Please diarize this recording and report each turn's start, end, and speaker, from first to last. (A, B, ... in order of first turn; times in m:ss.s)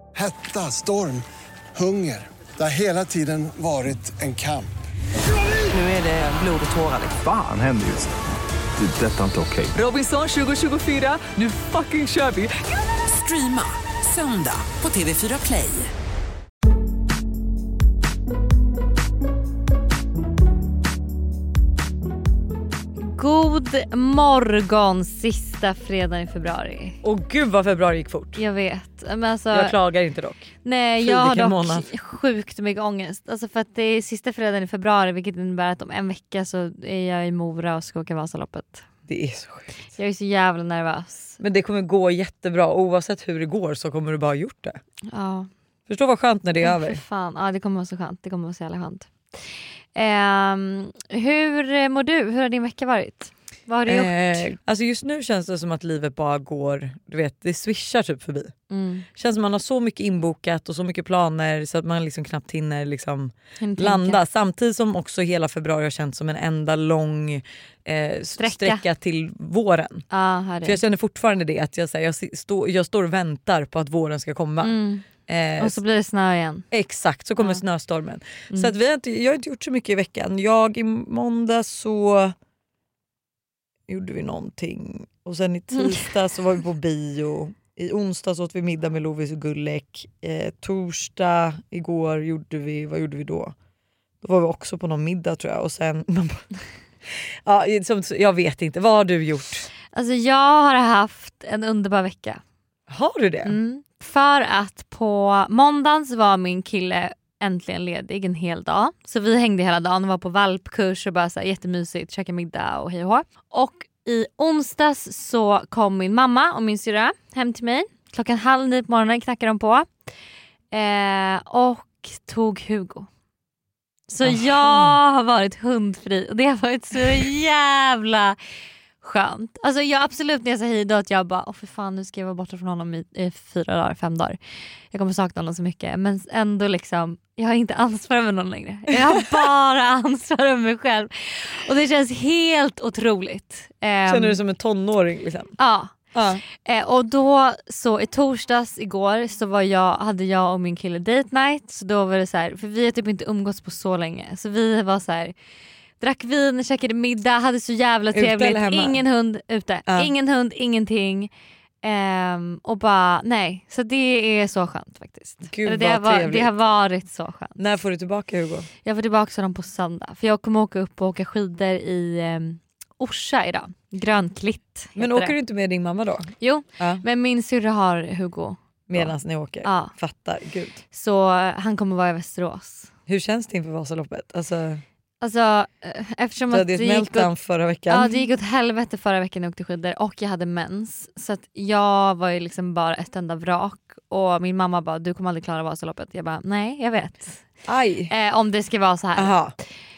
0:00.2-0:04.7 A
0:05.7-0:07.2 B
0:07.1-0:08.1 C
0:08.8-0:09.8 C
0:09.8-0:12.5 B
0:13.0-0:15.9 B
0:23.0-0:27.0 D
0:27.0-0:28.4 E
0:28.4-0:29.8 D
0:29.5-0:31.9 E
0:30.6-0:38.9 D
0:39.1-0:39.8 E
0:40.0-0:41.4 D
0:41.4-0:44.8 E
0:45.1-0:45.5 D
0:45.9-0:47.0 E
0:46.6-0:49.1 D
0:50.0-0:54.5 D
0:53.9-0:58.5 E
0:58.7-0:59.1 D
0:59.2-1:10.1 E
1:03.6-1:04.2 D
1:08.4-1:08.8 D
1:10.1-1:10.8 D
1:10.6-1:15.8 E
1:14.6-1:15.0 D
1:15.6-1:16.7 D
1:16.7-1:22.4 E
1:23.9-1:33.5 E
1:34.2-1:36.5 E
1:37.5-1:39.7 E
1:39.9-1:42.4 D
1:42.9-1:43.6 E
1:43.5-1:59.9 D
2:00.7-2:03.1 D
2:04.1-2:08.4 D
2:04.2-2:05.0 E
2:09.0-2:14.4 D
2:14.9-2:24.4 D
2:24.1-2:25.6 E
2:25.6-2:35.3 D
2:26.1-2:26.4 E
2:36.0-2:41.3 D
2:38.1-2:39.0 E
2:39.9-2:40.1 E
2:41.8-2:47.6 D
2:45.5-2:46.5 E
2:47.6-2:48.7 E
2:48.8-2:55.4 D
2:55.0-2:57.0 E
2:56.4-2:59.9 D
2:58.9-3:00.8 E
3:00.9-3:02.9 D
3:03.1-3:04.8 E
3:05.2-3:07.3 D
3:06.5-3:08.2 E
3:07.9-3:17.4 D
3:17.6-3:18.1 E
3:18.1-3:19.4 D
3:19.2-3:19.6 E